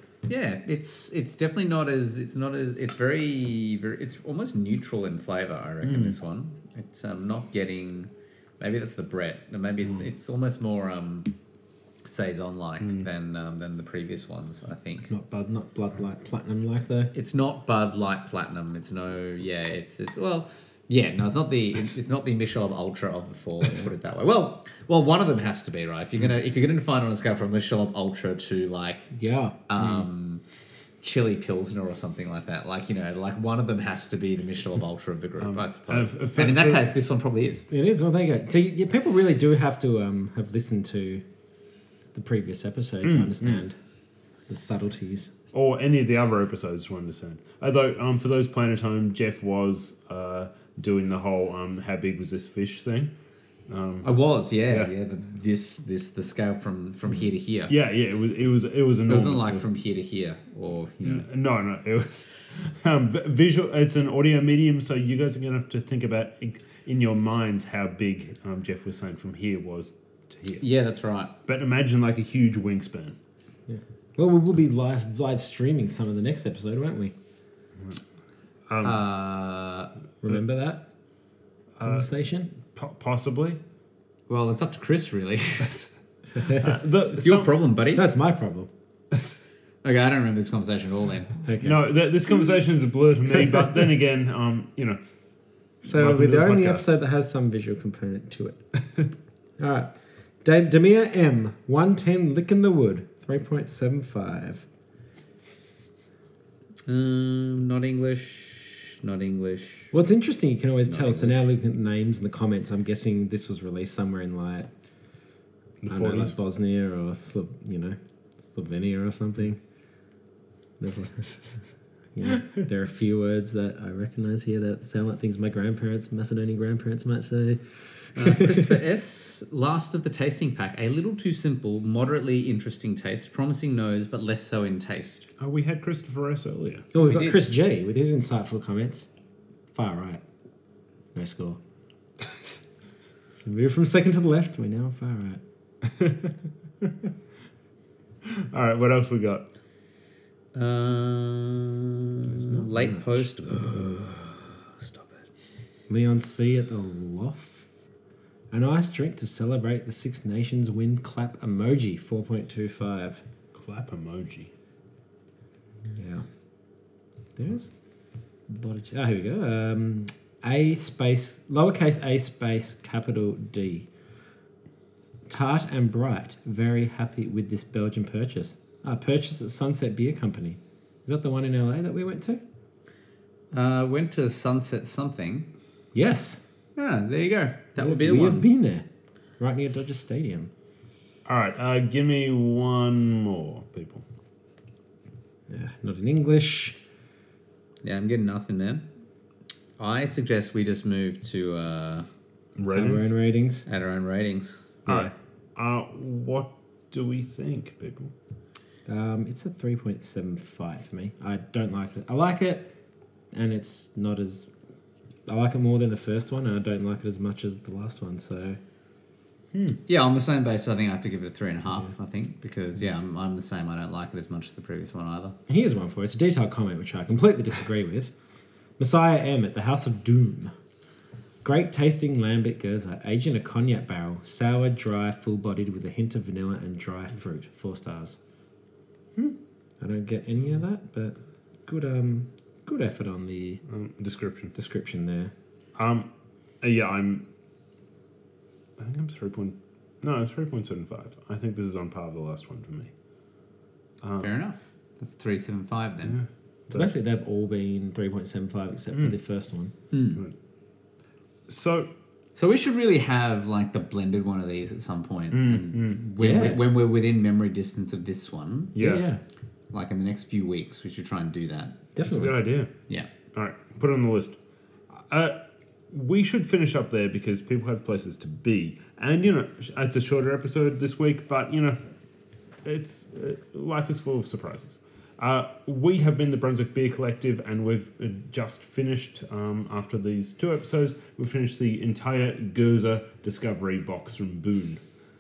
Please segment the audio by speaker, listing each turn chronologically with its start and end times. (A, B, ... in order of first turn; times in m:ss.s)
0:00.3-0:11.3 A
0:05.8-0:06.2 B
0:12.0-0:15.1 A
0:15.1-0:17.1 C
0:17.1-0:29.1 A
0:29.1-0:30.0 C
0:29.7-0:30.4 A
0:31.0-0:37.6 A
0:35.4-0:36.9 B
0:37.7-0:41.2 C
0:42.1-0:43.8 C
0:43.0-0:43.6 B
0:44.5-0:45.3 C
0:45.5-0:53.1 B
0:53.7-0:54.1 B
0:54.0-0:57.8 A
0:57.7-0:59.6 B
0:59.1-1:01.3 A
1:01.1-1:10.6 B
1:10.6-1:11.3 A
1:11.4-1:13.2 B
1:13.7-1:17.2 C
1:18.7-1:19.0 B
1:18.8-1:19.9 A
1:20.2-1:20.9 C
1:21.8-1:22.1 B
1:21.8-1:22.5 C
1:22.7-1:23.6 B
1:24.3-1:25.7 A
1:25.6-1:27.6 B
1:26.4-1:26.7 C
1:27.2-1:28.1 A
1:28.0-1:28.7 C
1:29.8-1:31.4 A
1:31.4-1:31.8 C
1:31.6-1:35.0 B
1:35.8-1:38.6 C
1:35.8-1:36.9 B
1:39.6-1:44.7 C
1:46.9-1:49.9 A
1:49.9-1:54.7 C
1:50.9-1:51.3 A
1:55.8-1:56.4 B
1:55.9-1:59.6 C
2:00.8-2:01.6 C
2:02.2-2:07.6 C
2:08.2-2:08.7 C
2:08.2-2:15.3 A
2:15.4-2:16.9 B
2:16.9-2:19.1 C
2:17.0-2:17.4 A
2:19.7-2:20.2 C
2:21.1-2:21.6 C
2:23.3-2:25.4 C
2:25.9-2:26.3 B
2:28.2-2:29.4 B
2:30.5-2:35.3 A
2:32.4-2:33.2 C
2:35.9-2:37.7 C
2:38.5-2:43.2 C
2:43.5-2:44.5 B
2:45.9-2:46.3 C
2:47.4-2:47.7 C
2:48.5-2:53.9 C
2:55.3-3:02.4 C
3:03.5-3:05.5 A
3:05.9-3:06.4 C
3:06.8-3:08.4 A
3:07.8-3:08.9 C
3:09.4-3:10.5 C
3:11.3-3:14.0 B
3:15.5-3:16.8 C
3:17.8-3:18.9 A
3:19.8-3:22.1 A
3:22.6-3:23.1 B
3:22.7-3:23.7 C
3:23.7-3:24.7 A
3:24.9-3:25.1 C
3:24.9-3:28.1 B
3:28.9-3:32.7 C
3:33.3-3:34.5 C
3:35.3-3:38.6 C
3:39.5-3:39.8 B
3:39.9-3:45.4 A
3:45.5-3:48.1 C
3:48.8-3:50.6 C
3:51.4-3:58.2 C
3:59.8-4:03.6 C
4:03.7-4:04.5 B
4:04.6-4:05.3 C
4:05.8-4:06.1 B
4:06.6-4:07.2 B
4:08.8-4:12.9 B
4:14.0-4:14.3 B
4:14.2-4:16.2 A
4:16.1-4:16.9 B
4:16.7-4:19.7 C
4:19.9-4:20.2 A
4:21.5-4:21.9 B
4:22.4-4:28.8 A
4:25.3-4:26.0 B
4:26.2-4:26.6 C
4:28.8-4:29.0 B
4:28.8-4:29.2 C
4:29.7-4:31.8 A
4:32.0-4:32.4 C
4:32.1-4:32.7 B
4:33.3-4:34.4 B
4:34.9-4:35.4 B
4:35.9-4:41.8 B
4:42.6-4:54.8 B